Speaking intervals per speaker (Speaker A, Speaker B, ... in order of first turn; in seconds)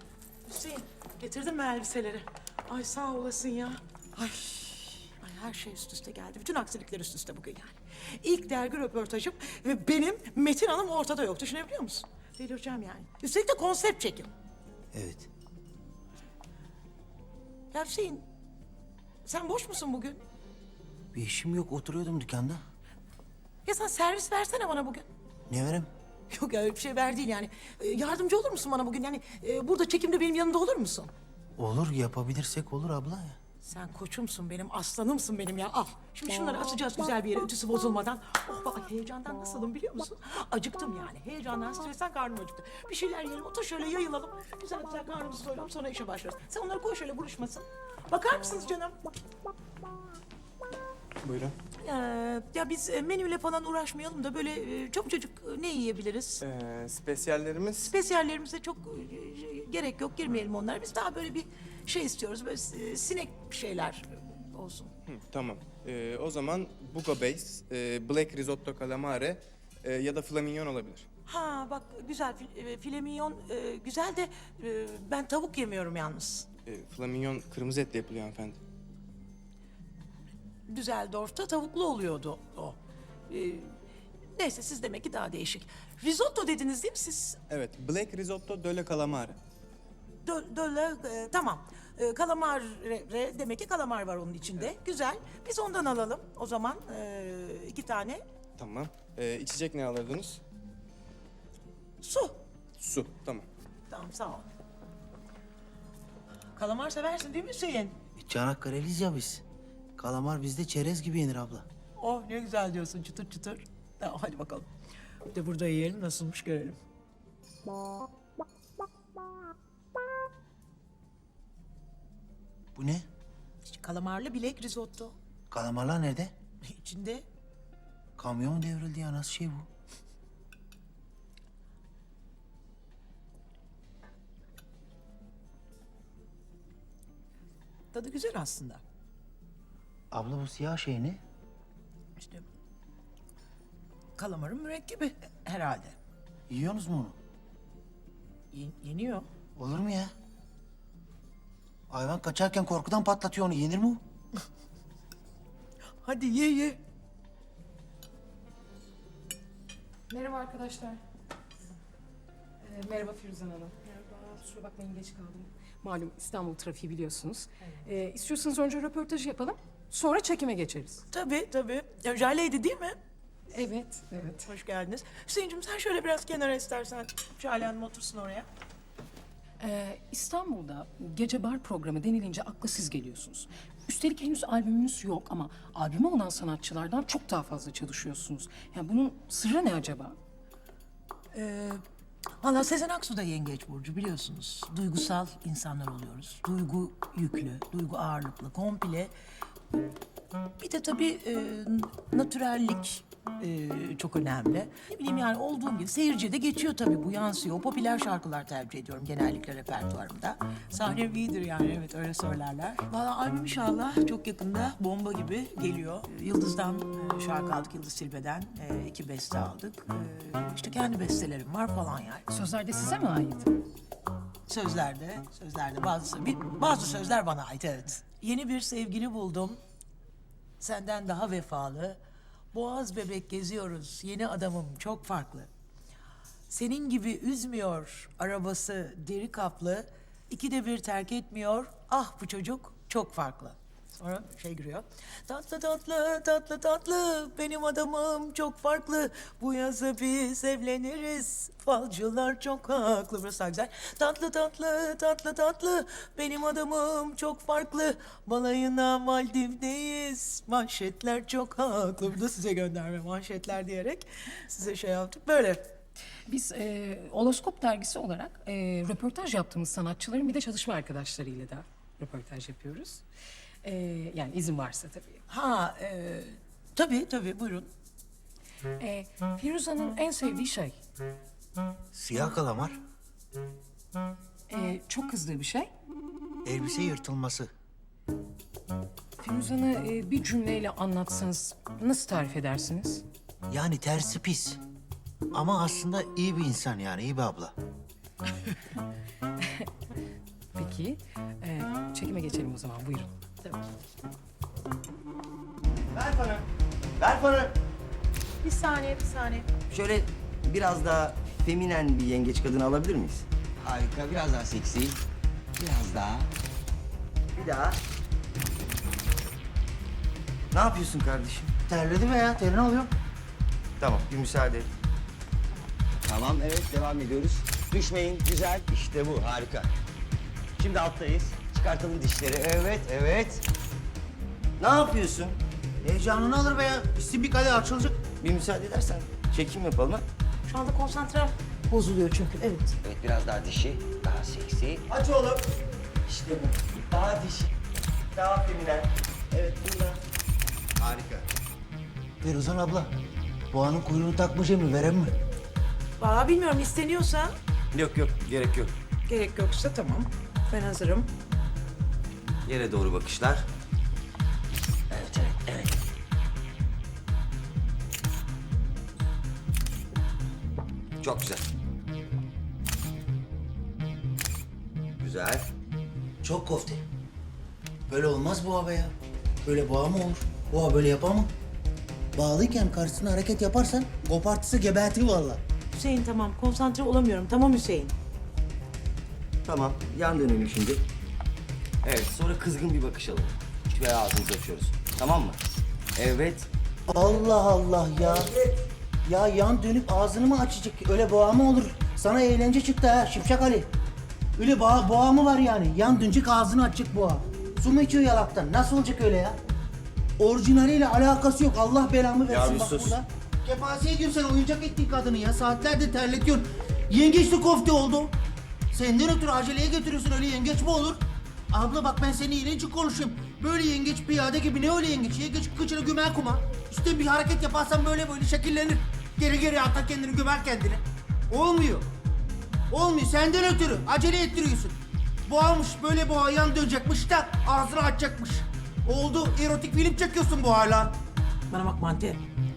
Speaker A: 0.5-14.3, 17.7-18.3, 19.2-20.2, 23.6-25.1, 26.3-31.1, 33.6-49.0, 51.8-56.4, 57.8-64.9, 71.3-76.5, 80.7-83.8, 84.4-87.4, 90.2-98.2, 102.0-102.4, 103.9-104.5, 106.5-108.0, 112.0-114.7, 115.3-116.8, 123.6-125.2, 126.6-127.3, 137.9-138.8, 142.2-142.4, 144.2-146.0, 148.5-149.3, 156.0-156.8, 171.1-173.0, 174.2-178.5, 191.3-191.8, 192.4-199.1, 200.6-222.3, 224.5-229.6, 230.6-232.0, 232.5-235.5, 236.5-265.7, 275.3-277.7, 308.4-309.5, 340.5-342.8, 356.0-357.3, 359.1-361.1, 385.7-387.9, 441.5-442.2
Speaker B: 14.9-15.3, 21.1-22.6, 25.5-25.9, 31.6-33.4, 108.2-109.4, 110.0-111.7, 122.8-123.1, 125.5-126.3, 128.2-129.7, 140.1-141.2, 146.5-147.2, 149.6-150.1, 151.9-154.0, 281.9-282.8, 286.4-287.5, 293.5-294.6, 295.3-297.5, 321.7-322.9, 335.8-338.0, 352.2-352.9, 353.5-355.1, 376.2-376.8, 377.9-378.9, 379.4-381.3, 382.1-385.4, 396.9-398.3, 399.1-403.7, 404.4-409.4, 410.2-418.2, 418.7-431.9, 432.7-441.0
Speaker C: 51.2-51.5, 56.4-57.9, 65.1-71.1, 76.7-78.6, 87.5-89.4, 98.6-100.4, 102.8-103.5
Speaker D: 160.1-161.0, 162.6-171.1, 173.5-174.5, 179.6-190.2, 222.3-223.5, 266.3-273.0, 273.6-275.2, 278.8-280.8, 284.5-285.7, 289.2-293.0, 300.6-303.6
Speaker E: 305.9-306.4, 307.0-307.6, 309.7-315.0, 315.6-316.3, 317.3-317.8, 320.5-321.5, 323.8-324.7, 326.0-329.7, 330.6-333.4, 334.6-335.4, 338.2-340.1, 342.8-345.4, 346.1-347.5, 348.1-350.0, 350.8-351.3, 357.7-358.7, 362.4-363.5, 364.9-365.8, 371.0-371.4, 375.0-375.5, 389.5-390.8, 391.8-395.4, 396.0-396.5, 412.3-413.0